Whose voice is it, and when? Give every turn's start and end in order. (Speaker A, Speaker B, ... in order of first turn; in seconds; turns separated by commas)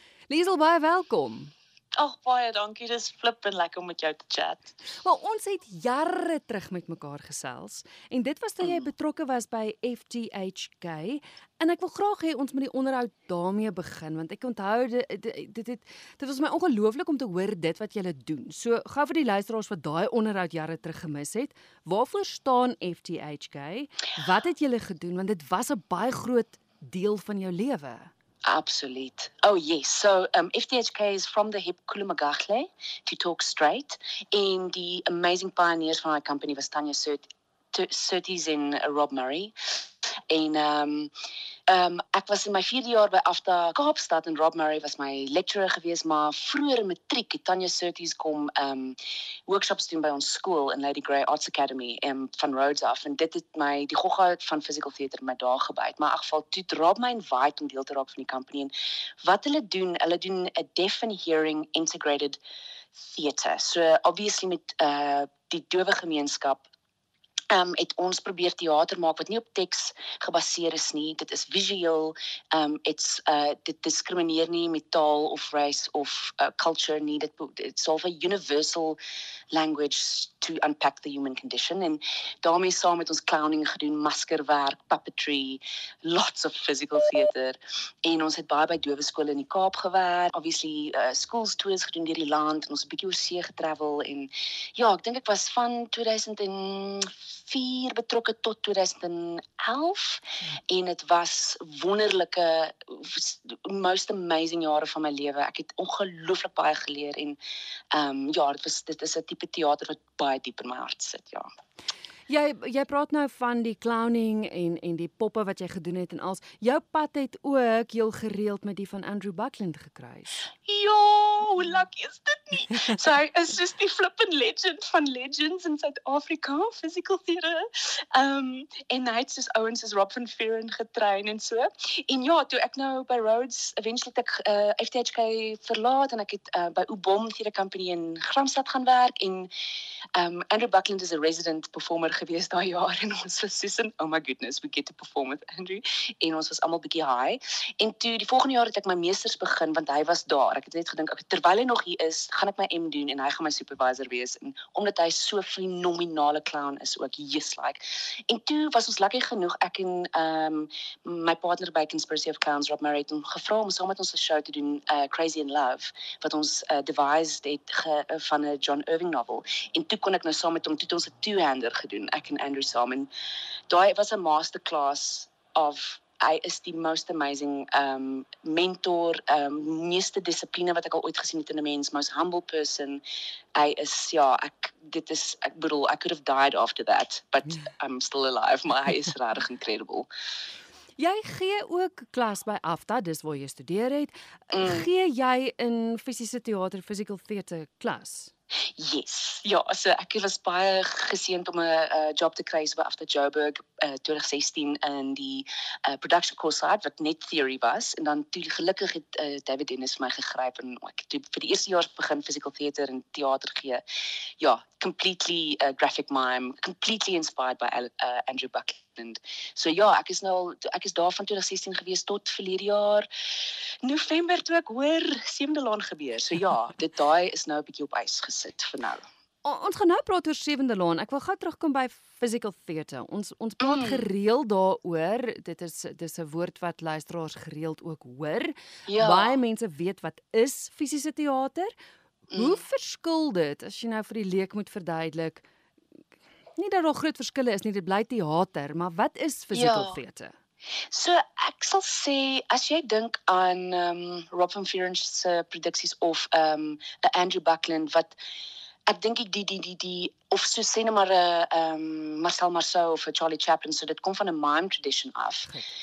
Speaker A: 0.3-1.5, Speaker B: 2.0-4.7, Speaker A: 5.0-28.1, Speaker B: 8.6-8.9, Speaker B: 28.4-39.5, Speaker B: 40.3-41.1, Speaker B: 41.7-62.4, Speaker B: 63.0-66.7, Speaker B: 67.5-79.0, Speaker B: 79.5-107.4, Speaker B: 107.9-111.5, Speaker A: 112.3-120.5, Speaker B: 120.6-139.5, Speaker B: 140.2-173.1, Speaker B: 173.7-183.0, Speaker B: 183.6-190.1, Speaker A: 191.0-198.3, Speaker B: 194.5-194.9, Speaker B: 198.8-213.8, Speaker B: 214.4-223.1, Speaker B: 223.8-229.1, Speaker A: 229.4-241.7, Speaker B: 233.6-234.0, Speaker B: 238.9-239.4, Speaker B: 242.3-242.6, Speaker A: 242.3-245.4, Speaker A: 246.6-250.3, Speaker B: 249.5-250.0, Speaker B: 250.9-258.2, Speaker B: 258.9-265.5